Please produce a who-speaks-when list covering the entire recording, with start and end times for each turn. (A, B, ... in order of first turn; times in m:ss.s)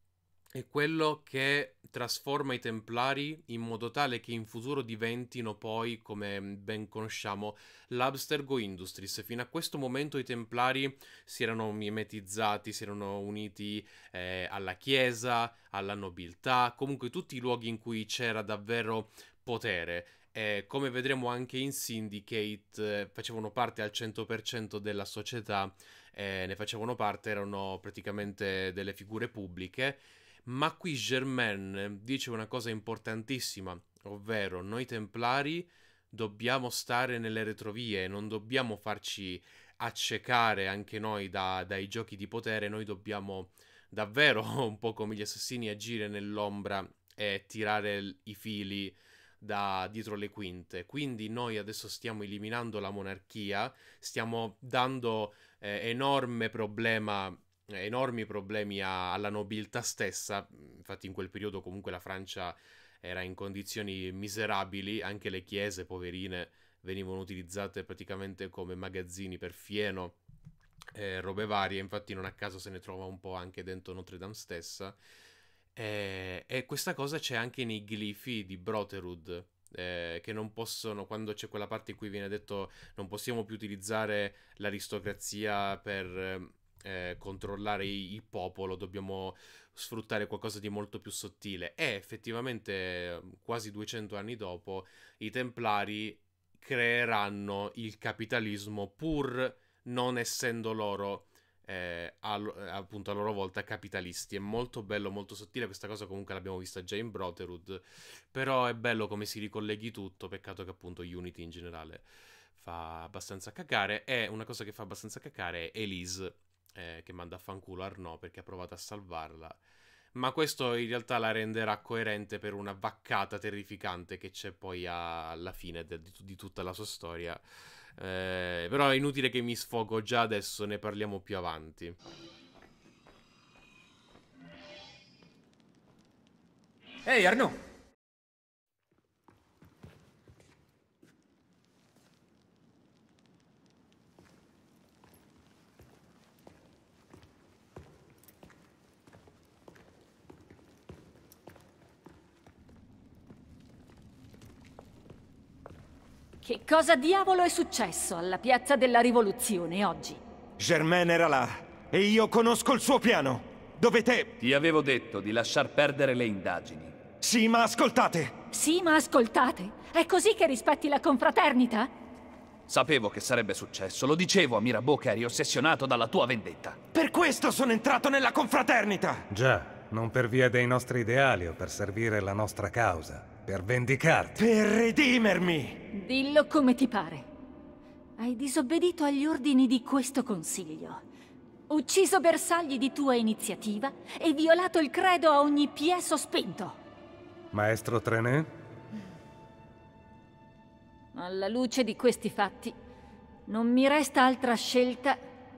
0:00.5-1:10.2 A
1:10.9-1:15.0 A
1:15.8-1:59.6 A
2:00.1-2:07.4 A
2:08.0-2:11.9 A
2:36.4-2:40.2 B
2:40.6-2:44.4 C
2:44.4-2:46.9 D
2:47.2-2:48.3 C
2:48.5-2:51.9 B
2:52.7-2:56.8 D
2:56.9-2:59.2 C
2:59.3-3:04.4 E
3:04.4-3:05.8 C
3:05.9-3:07.2 B
3:08.2-3:11.0 B
3:11.7-3:16.8 B
3:17.5-3:18.5 E
3:21.1-3:22.8 B
3:23.5-3:25.2 B